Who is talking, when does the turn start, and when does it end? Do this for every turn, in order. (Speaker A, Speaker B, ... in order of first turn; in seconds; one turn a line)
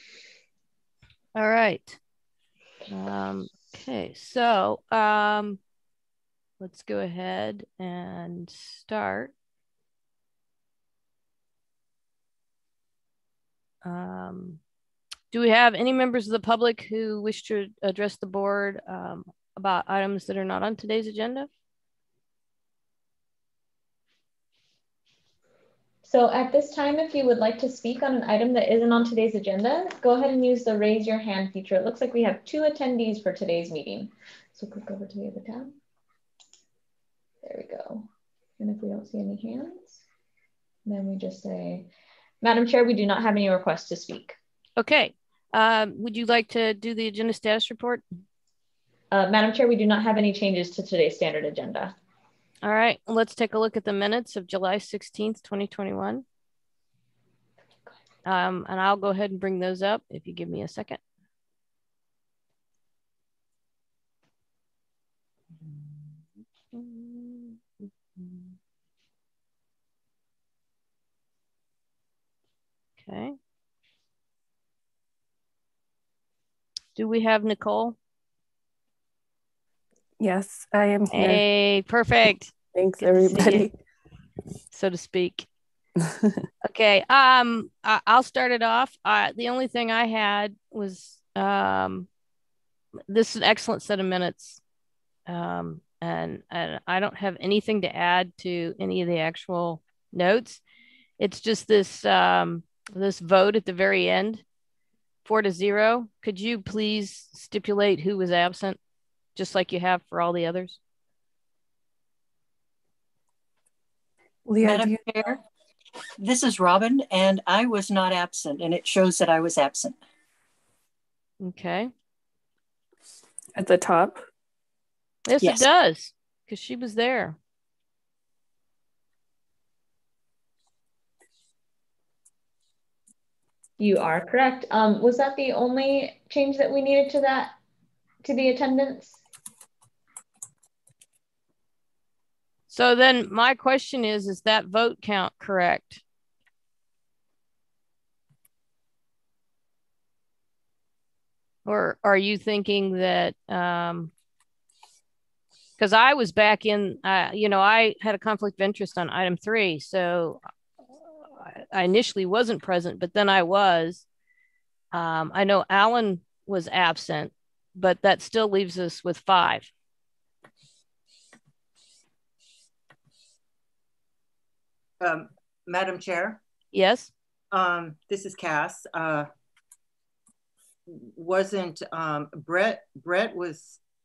Speaker A: 1.3-2.0
Speaker A: 2.9-5.6
Speaker A: 6.6-9.3
Speaker A: 13.8-14.6
Speaker A: 15.3-21.5
Speaker B: 26.0-35.8
Speaker B: 37.4-38.1
Speaker B: 38.6-40.0
Speaker B: 40.9-41.9
Speaker B: 42.4-44.4
Speaker A: 44.8-48.0
Speaker B: 49.1-51.9
Speaker A: 52.6-56.2
Speaker A: 58.2-61.0
Speaker A: 66.7-68.5
Speaker A: 73.0-73.3
Speaker A: 77.0-78.0
Speaker C: 80.2-81.4
Speaker A: 81.1-83.7
Speaker C: 82.7-83.7
Speaker A: 84.7-85.5
Speaker A: 86.6-92.1
Speaker A: 93.1-94.6
Speaker A: 95.3-100.6
Speaker A: 101.2-104.4
Speaker A: 105.2-108.8
Speaker A: 109.3-110.8
Speaker C: 114.5-115.0
Speaker D: 114.6-115.4
Speaker D: 116.2-120.0
Speaker A: 121.4-121.9
Speaker C: 123.5-124.2
Speaker A: 125.3-127.4
Speaker D: 125.4-125.7
Speaker B: 133.8-137.6
Speaker B: 138.2-139.2
Speaker A: 142.7-146.0
Speaker A: 151.6-154.1
Speaker A: 155.8-160.4
Speaker A: 161.2-164.0
Speaker A: 164.9-169.7
Speaker E: 175.0-176.4
Speaker A: 176.7-177.1
Speaker E: 177.5-179.3
Speaker E: 180.9-183.8